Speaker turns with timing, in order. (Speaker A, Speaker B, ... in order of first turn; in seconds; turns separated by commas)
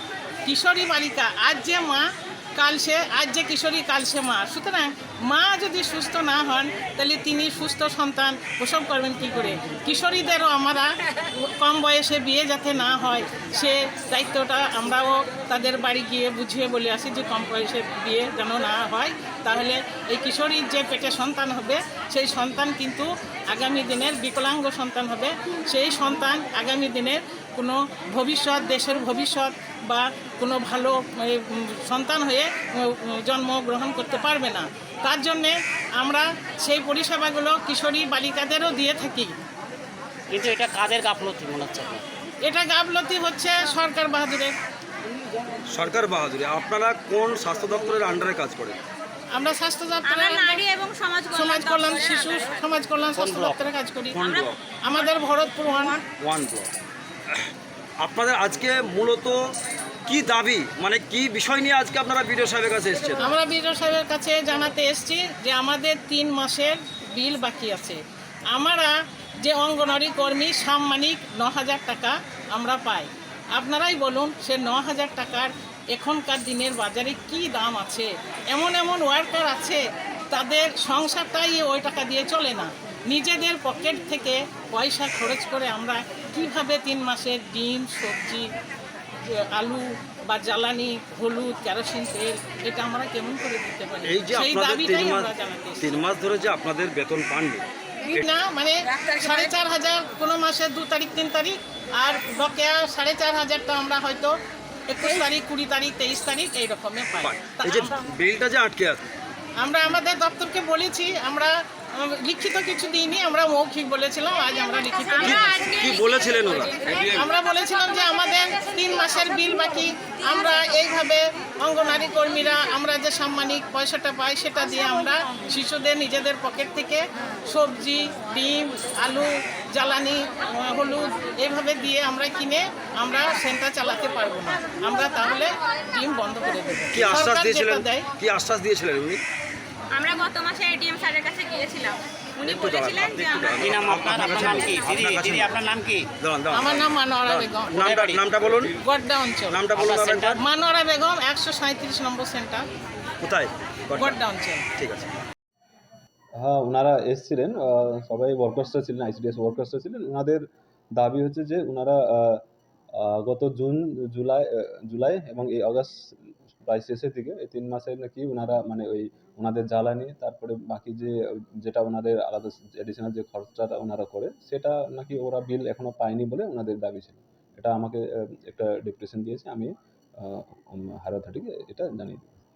Speaker A: 0.5-39.3, Speaker B: 40.3-42.0, Speaker A: 42.4-44.5, Speaker C: 45.7-48.8, Speaker A: 49.3-50.6, Speaker D: 50.0-52.5, Speaker A: 51.3-54.2, Speaker B: 53.1-53.7, Speaker C: 54.1-54.6, Speaker A: 54.8-56.0, Speaker C: 56.2-56.7, Speaker C: 58.0-59.5, Speaker C: 60.1-63.3, Speaker A: 63.2-88.5, Speaker A: 89.2-96.0, Speaker C: 94.0-98.3, Speaker A: 98.1-104.3, Speaker A: 104.9-108.0, Speaker C: 107.2-109.0, Speaker A: 109.6-115.8, Speaker D: 115.0-117.0, Speaker C: 115.2-117.3, Speaker A: 117.1-138.1, Speaker C: 136.9-139.2, Speaker D: 139.9-143.8, Speaker C: 142.4-145.6, Speaker B: 143.6-146.1, Speaker C: 146.2-148.8, Speaker A: 146.5-147.9, Speaker B: 147.7-148.5, Speaker A: 148.8-149.6, Speaker C: 149.5-150.4, Speaker B: 149.7-150.4, Speaker A: 150.4-152.6, Speaker C: 153.2-154.2, Speaker A: 153.9-154.6, Speaker C: 154.8-155.1, Speaker E: 156.4-160.4, Speaker E: 161.0-162.4, Speaker E: 163.0-165.9, Speaker E: 166.6-182.4